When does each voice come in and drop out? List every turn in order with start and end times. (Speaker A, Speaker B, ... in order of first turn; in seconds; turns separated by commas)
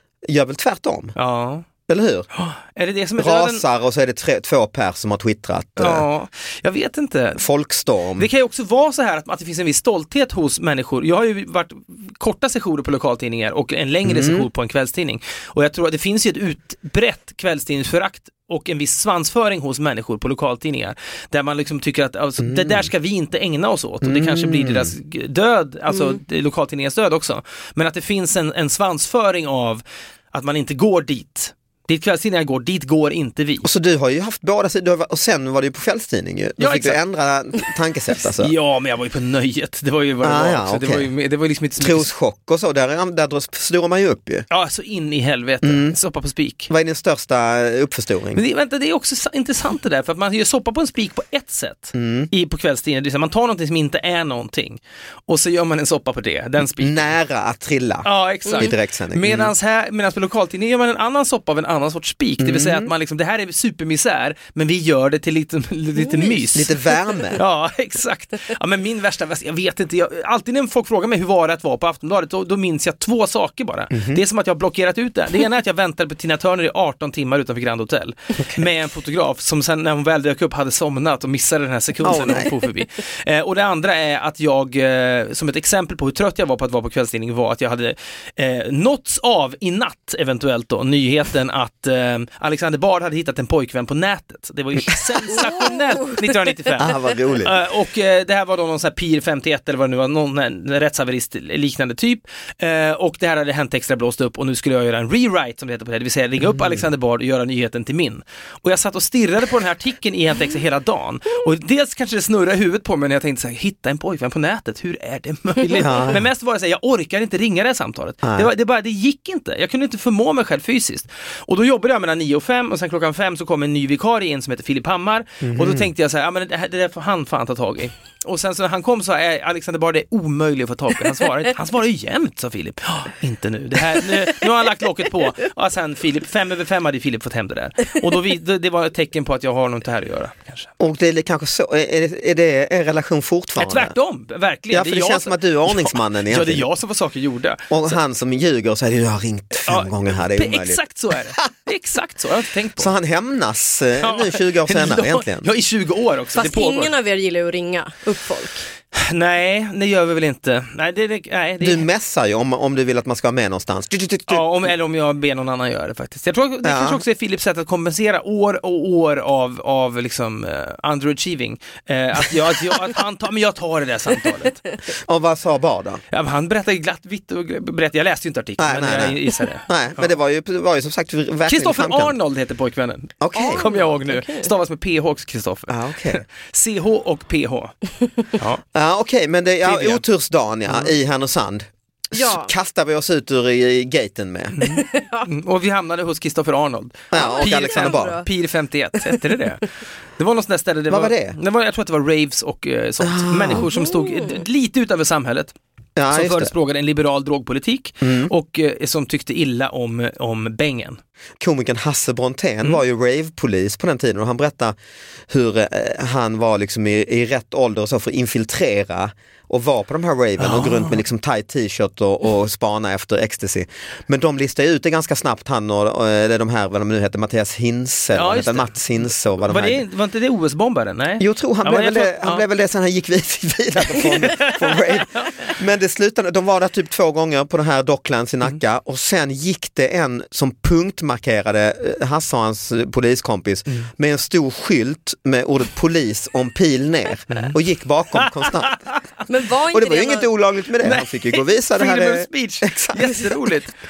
Speaker A: 0.3-1.1, Speaker B: 1.2-1.7, Speaker A: 1.9-2.3, Speaker B: 2.4-3.6, Speaker A: 3.2-6.1, Speaker B: 5.8-7.4, Speaker A: 7.4-8.3, Speaker B: 8.2-29.8, Speaker A: 14.1-14.5, Speaker A: 22.4-22.9, Speaker A: 24.0-24.9, Speaker C: 25.9-26.2, Speaker B: 30.3-33.7, Speaker A: 33.6-38.5, Speaker B: 36.6-37.0, Speaker B: 38.4-42.1, Speaker A: 40.2-41.1, Speaker A: 41.8-44.5, Speaker B: 44.5-46.7, Speaker A: 45.6-46.0, Speaker A: 46.7-48.4, Speaker B: 48.4-57.1, Speaker A: 52.0-52.3, Speaker A: 56.8-59.5, Speaker B: 58.0-66.7, Speaker C: 58.5-58.7, Speaker A: 62.4-62.9, Speaker C: 66.0-66.6, Speaker A: 66.6-67.4, Speaker B: 67.4-140.7, Speaker A: 73.9-74.2, Speaker A: 78.4-78.7, Speaker A: 82.0-82.5, Speaker C: 95.4-96.2, Speaker A: 96.8-97.6, Speaker A: 106.4-106.8, Speaker A: 115.8-116.2, Speaker A: 118.2-118.5, Speaker A: 125.4-125.9, Speaker A: 140.8-143.9, Speaker B: 143.6-148.0, Speaker A: 144.7-146.7, Speaker A: 147.7-150.8, Speaker B: 149.7-152.9, Speaker A: 152.8-155.5, Speaker B: 154.0-156.9, Speaker C: 156.4-158.7, Speaker B: 158.9-161.8, Speaker A: 161.6-164.5, Speaker B: 164.3-174.6, Speaker A: 166.6-167.0, Speaker A: 175.1-176.0, Speaker B: 176.1-180.1, Speaker A: 178.6-182.2, Speaker B: 181.5-187.8, Speaker A: 183.2-183.7, Speaker C: 183.3-184.5, Speaker A: 185.7-186.2, Speaker B: 188.3-188.6, Speaker A: 188.8-194.6, Speaker B: 189.6-190.0, Speaker C: 192.1-192.5, Speaker B: 194.6-205.5, Speaker C: 194.7-195.3, Speaker A: 197.1-198.2, Speaker C: 197.1-198.3, Speaker A: 200.9-201.4, Speaker A: 203.0-203.7, Speaker C: 203.5-204.4, Speaker A: 206.0-206.5, Speaker B: 206.1-211.0, Speaker A: 208.0-208.3, Speaker A: 211.4-214.8, Speaker A: 215.3-229.8, Speaker B: 220.4-221.0, Speaker B: 228.1-228.7, Speaker B: 229.4-232.4, Speaker A: 231.2-248.8, Speaker B: 233.9-235.5, Speaker B: 248.2-248.8, Speaker C: 249.3-250.3, Speaker A: 249.7-253.5, Speaker B: 250.8-253.7